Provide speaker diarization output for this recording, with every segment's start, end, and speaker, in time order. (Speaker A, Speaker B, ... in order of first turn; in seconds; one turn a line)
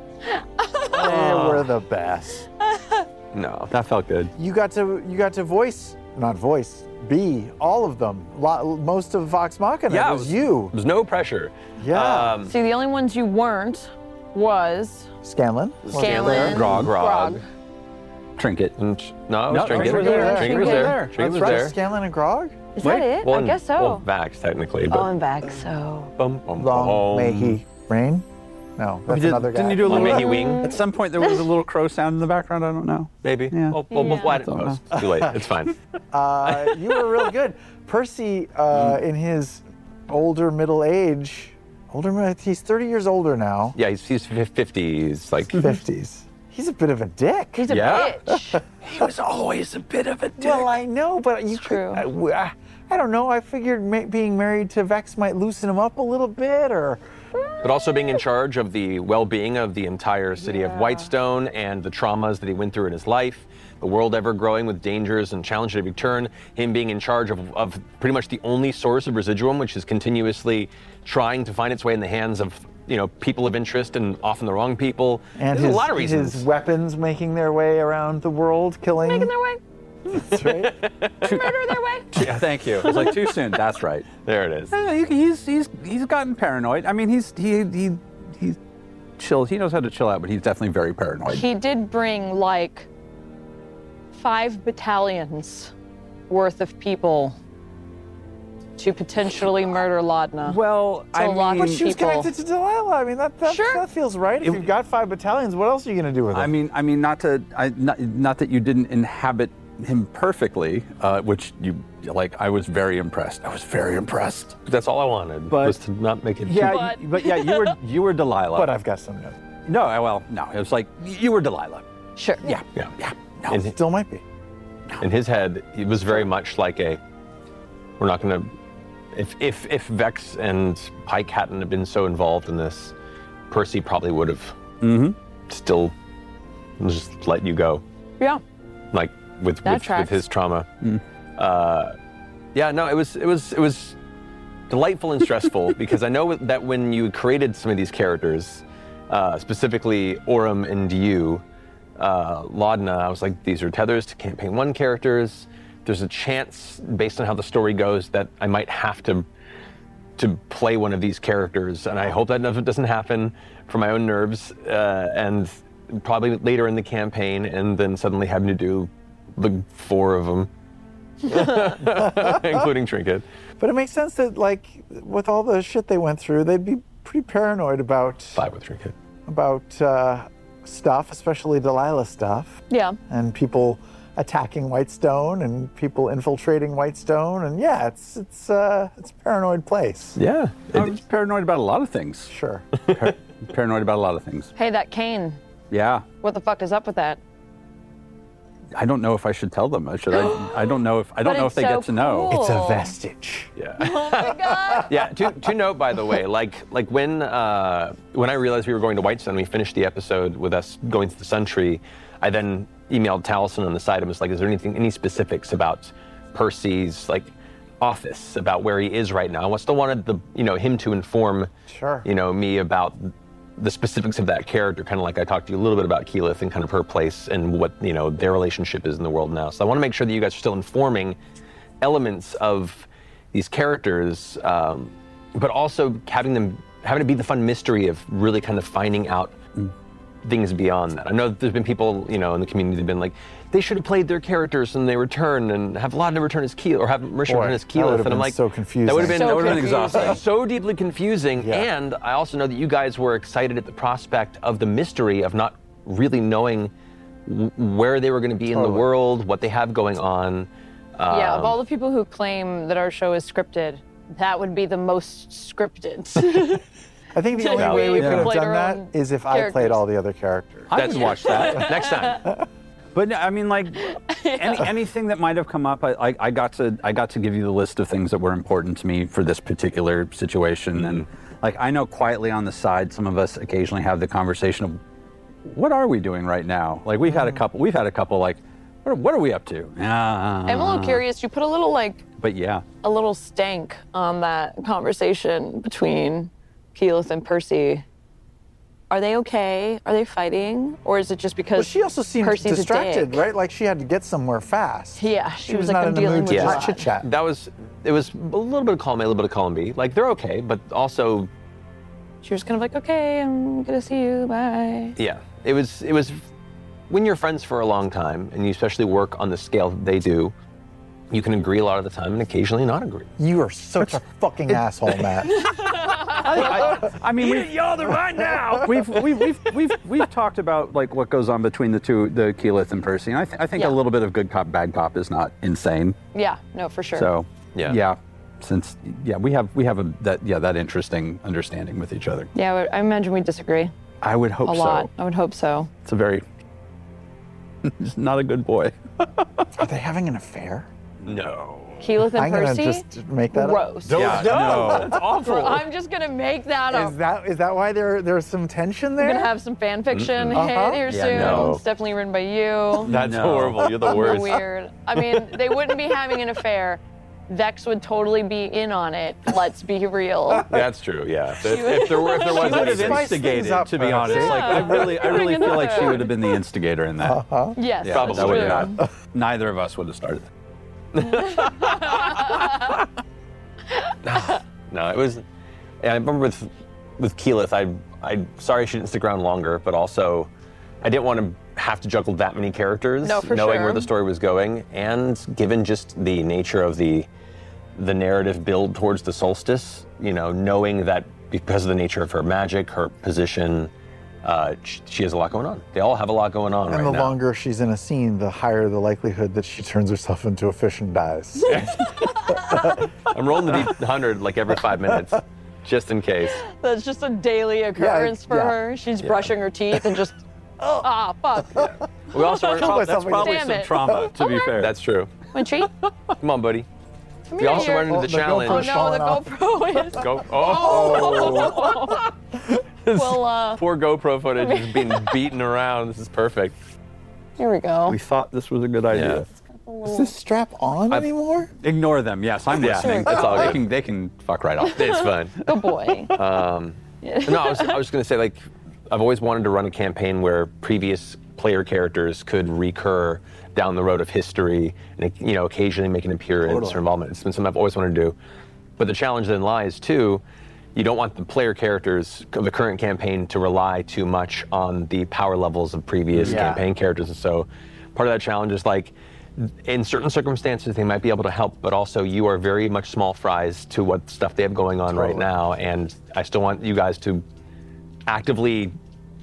Speaker A: 0.6-0.8
Speaker B: 0.9-2.5
Speaker C: 0.9-1.7
Speaker A: 2.8-3.0
Speaker D: 3.3-3.7
Speaker C: 3.7-4.3
Speaker B: 4.4-10.8
Speaker D: 9.9-12.5
Speaker B: 11.8-12.4
Speaker A: 12.5-15.1
Speaker B: 15.2-16.6
Speaker D: 15.8-17.4
Speaker A: 16.0-17.4
Speaker C: 16.1-16.9
Speaker C: 18.4-18.8
Speaker D: 18.8-21.8
Speaker C: 19.5-21.7
Speaker B: 19.6-22.6
Speaker A: 19.9-21.0
Speaker A: 22.8-24.0
Speaker C: 22.8-23.1
Speaker D: 23.2-25.1
Speaker A: 24.9-26.1
Speaker D: 26.2-27.6
Speaker B: 26.5-28.3
Speaker B: 28.8-30.3
Speaker C: 29.1-34.8
Speaker D: 29.8-30.8
Speaker A: 30.0-30.6
Speaker D: 33.2-35.7
Speaker A: 33.9-34.3
Speaker B: 35.0-35.2
Speaker B: 36.1-43.8
Speaker D: 43.8-45.8
Speaker B: 45.6-48.6
Speaker A: 47.5-48.6
Speaker D: 47.7-48.1
Speaker C: 48.9-50.7
Speaker B: 50.4-57.0
Speaker A: 51.5-52.1
Speaker D: 57.6-76.5
Speaker A: 60.5-61.0
Speaker B: 75.4-79.3
Speaker A: 79.0-79.6
Speaker B: 80.2-80.8
Speaker D: 80.4-81.3
Speaker A: 81.2-82.1
Speaker C: 81.2-84.1
Speaker A: 82.8-83.2
Speaker D: 84.2-84.7
Speaker C: 84.7-88.6
Speaker C: 89.2-91.5
Speaker A: 91.3-92.9
Speaker A: 94.1-95.7
Speaker A: 96.3-97.4
Speaker A: 98.8-100.6
Speaker C: 100.4-101.9
Speaker A: 101.1-102.3
Speaker B: 101.6-106.5
Speaker A: 103.5-103.8
Speaker C: 106.3-114.6
Speaker D: 114.7-116.9
Speaker C: 115.5-115.8
Speaker C: 116.5-118.7
Speaker A: 116.6-117.8
Speaker B: 118.5-119.4
Speaker C: 119.7-121.8
Speaker A: 122.2-122.5
Speaker C: 122.4-123.6
Speaker B: 123.5-124.2
Speaker D: 123.5-123.8
Speaker D: 125.0-127.0
Speaker D: 128.0-128.5
Speaker D: 129.1-132.9
Speaker D: 133.5-134.6
Speaker C: 134.8-135.2
Speaker D: 135.5-135.9
Speaker D: 136.8-137.8
Speaker D: 138.9-140.7
Speaker A: 139.7-140.2
Speaker D: 141.4-142.0
Speaker D: 142.5-144.0
Speaker D: 144.7-151.4
Speaker D: 152.0-159.3
Speaker D: 160.2-170.5
Speaker D: 171.2-173.2
Speaker B: 171.9-172.5
Speaker B: 173.6-178.5
Speaker D: 178.4-178.9
Speaker B: 179.3-190.2
Speaker A: 182.7-183.0
Speaker D: 190.2-190.9
Speaker C: 190.7-192.3
Speaker B: 192.3-192.7
Speaker C: 192.9-194.5
Speaker A: 194.6-195.4
Speaker C: 195.7-196.1
Speaker A: 196.2-197.2
Speaker C: 198.8-202.4
Speaker A: 200.1-200.6
Speaker A: 201.2-202.9
Speaker B: 202.3-203.5
Speaker D: 203.6-221.5
Speaker A: 203.8-204.9
Speaker B: 204.4-204.9
Speaker B: 221.7-222.1
Speaker D: 222.0-231.2
Speaker D: 231.8-239.3
Speaker D: 240.2-256.7
Speaker B: 247.2-249.6
Speaker A: 249.2-250.2
Speaker C: 249.2-250.2
Speaker B: 251.4-251.7
Speaker D: 257.3-261.6
Speaker B: 258.5-258.9
Speaker A: 261.1-266.6
Speaker B: 267.1-270.8
Speaker A: 267.3-269.8
Speaker D: 267.6-268.3
Speaker C: 268.0-268.3
Speaker C: 270.7-271.8
Speaker D: 270.7-272.3
Speaker A: 270.9-272.2
Speaker C: 272.9-284.8
Speaker A: 274.1-274.7
Speaker D: 280.8-281.0
Speaker C: 285.4-291.0
Speaker B: 287.0-287.4
Speaker A: 290.5-292.1
Speaker C: 292.2-292.6
Speaker A: 292.8-297.9
Speaker A: 298.9-303.2
Speaker B: 301.6-307.1
Speaker A: 305.0-306.9
Speaker D: 306.3-311.3
Speaker A: 312.2-315.0
Speaker D: 315.0-316.2
Speaker D: 316.9-320.4
Speaker D: 321.1-323.1
Speaker B: 323.2-325.5
Speaker A: 325.4-326.9
Speaker C: 326.0-336.0
Speaker D: 327.2-327.5
Speaker B: 328.2-328.8
Speaker A: 336.1-337.1
Speaker C: 336.9-342.3
Speaker D: 337.6-337.8
Speaker A: 342.3-343.7
Speaker C: 344.0-344.9
Speaker A: 344.4-345.7
Speaker C: 345.9-346.2
Speaker C: 347.6-349.5
Speaker B: 349.6-350.7
Speaker D: 351.1-351.8
Speaker A: 351.8-357.0
Speaker B: 352.1-355.0
Speaker C: 353.9-355.6
Speaker D: 353.9-354.8
Speaker B: 356.7-359.3
Speaker A: 359.0-362.9
Speaker D: 359.9-360.4
Speaker B: 360.3-360.9
Speaker C: 360.9-361.6
Speaker D: 361.1-361.6
Speaker C: 362.9-363.9
Speaker D: 362.9-364.4
Speaker A: 363.8-370.5
Speaker D: 370.5-373.2
Speaker A: 371.4-372.4
Speaker C: 372.2-377.2
Speaker B: 372.2-375.1
Speaker A: 374.1-376.4
Speaker B: 377.0-377.6
Speaker A: 377.6-378.8
Speaker C: 377.8-380.3
Speaker D: 377.9-378.8
Speaker D: 380.9-381.9
Speaker A: 381.1-382.5
Speaker D: 384.0-385.2
Speaker D: 385.8-390.3
Speaker D: 390.8-397.1
Speaker A: 393.0-393.9
Speaker D: 397.8-403.7
Speaker D: 404.2-407.2
Speaker B: 406.7-412.9
Speaker D: 411.5-412.0
Speaker A: 412.3-412.7
Speaker D: 413.1-416.4
Speaker A: 416.4-420.2
Speaker B: 417.8-418.5
Speaker D: 419.0-419.3
Speaker B: 420.6-420.9
Speaker A: 420.8-424.5
Speaker B: 421.4-424.1
Speaker D: 422.1-423.0
Speaker C: 422.4-424.8
Speaker D: 424.6-425.1
Speaker A: 425.3-425.7
Speaker D: 426.2-426.7
Speaker A: 427.3-432.0
Speaker D: 427.4-428.8
Speaker B: 427.5-429.5
Speaker D: 429.9-432.0
Speaker B: 430.4-431.7
Speaker D: 432.8-436.6
Speaker A: 432.9-433.6
Speaker A: 434.4-435.2
Speaker A: 437.4-438.0
Speaker C: 437.9-439.3
Speaker D: 438.9-439.2
Speaker A: 439.4-440.1
Speaker B: 439.9-441.5
Speaker C: 441.6-445.5
Speaker D: 442.5-443.6
Speaker A: 442.8-443.6
Speaker D: 444.8-445.4
Speaker A: 445.4-446.2
Speaker D: 446.1-458.2
Speaker A: 447.0-447.8
Speaker B: 456.5-456.8
Speaker D: 458.8-460.2
Speaker D: 460.8-477.2
Speaker C: 466.1-466.6
Speaker B: 466.2-466.6
Speaker C: 474.9-475.2
Speaker D: 478.1-478.8